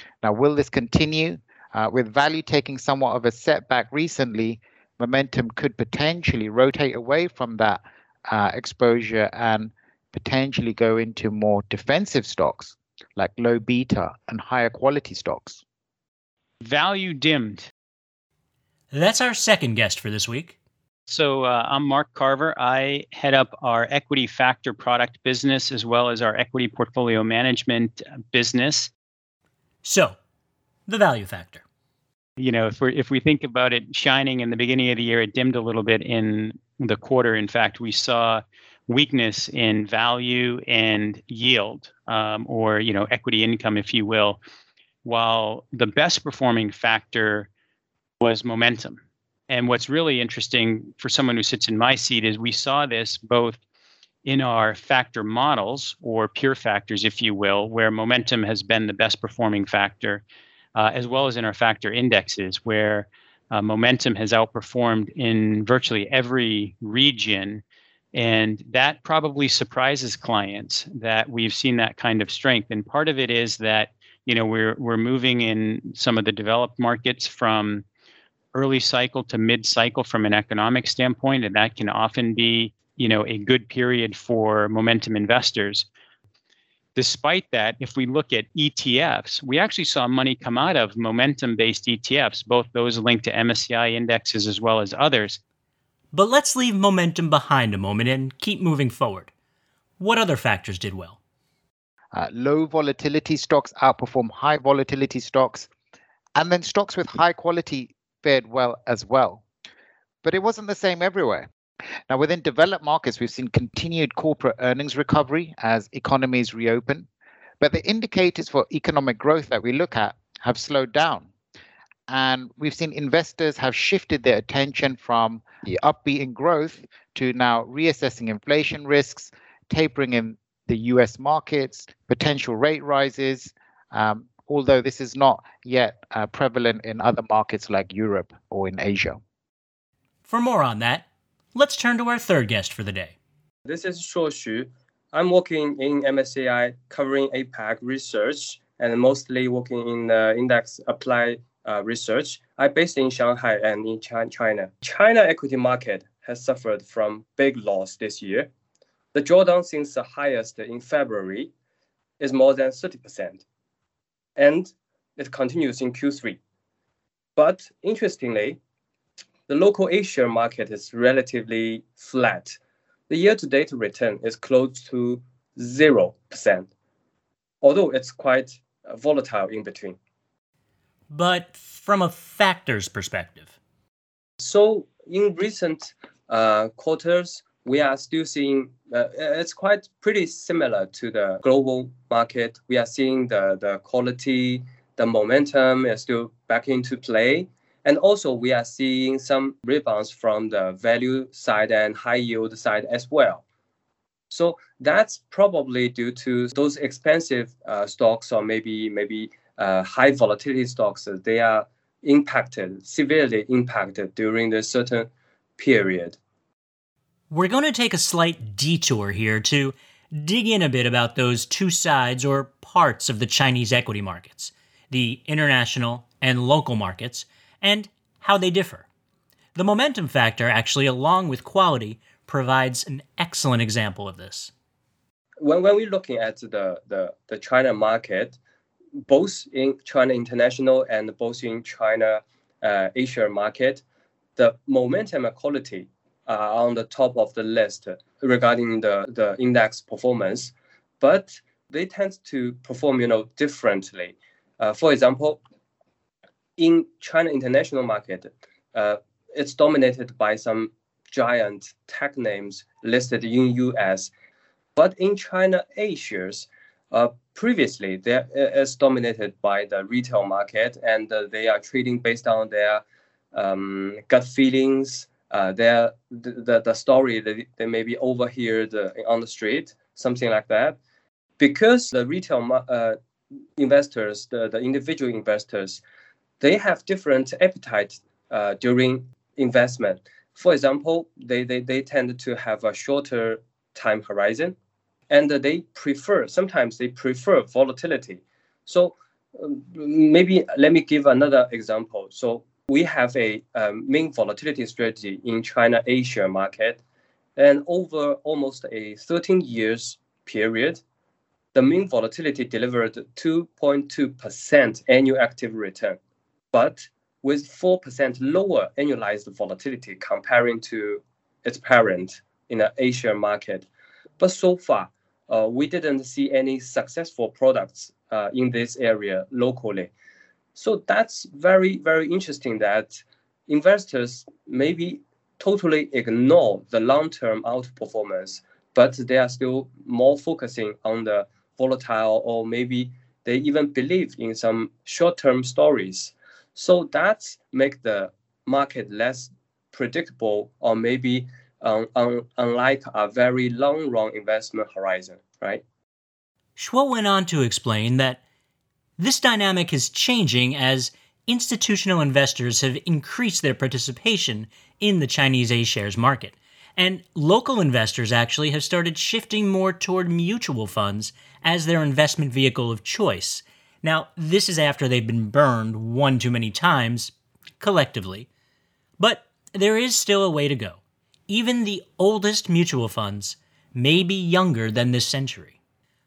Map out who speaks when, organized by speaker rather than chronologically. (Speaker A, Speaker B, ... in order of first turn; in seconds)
Speaker A: 0.2-15.6, 102.1-105.7, 106.4-109.4, 110.2-111.5, 112.1-117.1, 117.6-121.3, 122.1-139.2
Speaker B: 16.6-17.7, 21.1-28.9, 32.4-44.4, 45.0-47.5, 48.2-53.6, 54.2-60.2, 60.8-67.6, 68.1-77.8, 78.5-85.9, 87.0-95.4
Speaker C: 18.9-20.6, 29.8-30.2, 30.9-31.6, 96.1-99.3, 100.0-101.2, 140.3-143.2, 181.1-183.5, 217.3-228.9, 229.6-234.5, 356.6-358.2, 359.0-378.3, 379.0-385.6
Speaker D: 143.7-158.5, 159.1-161.5, 162.2-163.4, 164.4-166.4, 167.4-168.6, 169.5-172.6, 173.1-176.7, 177.6-180.0, 184.4-203.4, 204.3-216.2, 235.4-238.4, 239.0-243.8, 244.4-255.4, 256.6-264.1, 264.8-280.8, 281.4-283.0, 283.6-285.8, 286.4-294.6, 295.1-306.8, 307.4-310.8, 311.5-316.0, 316.5-323.7, 324.2-329.9, 330.6-355.6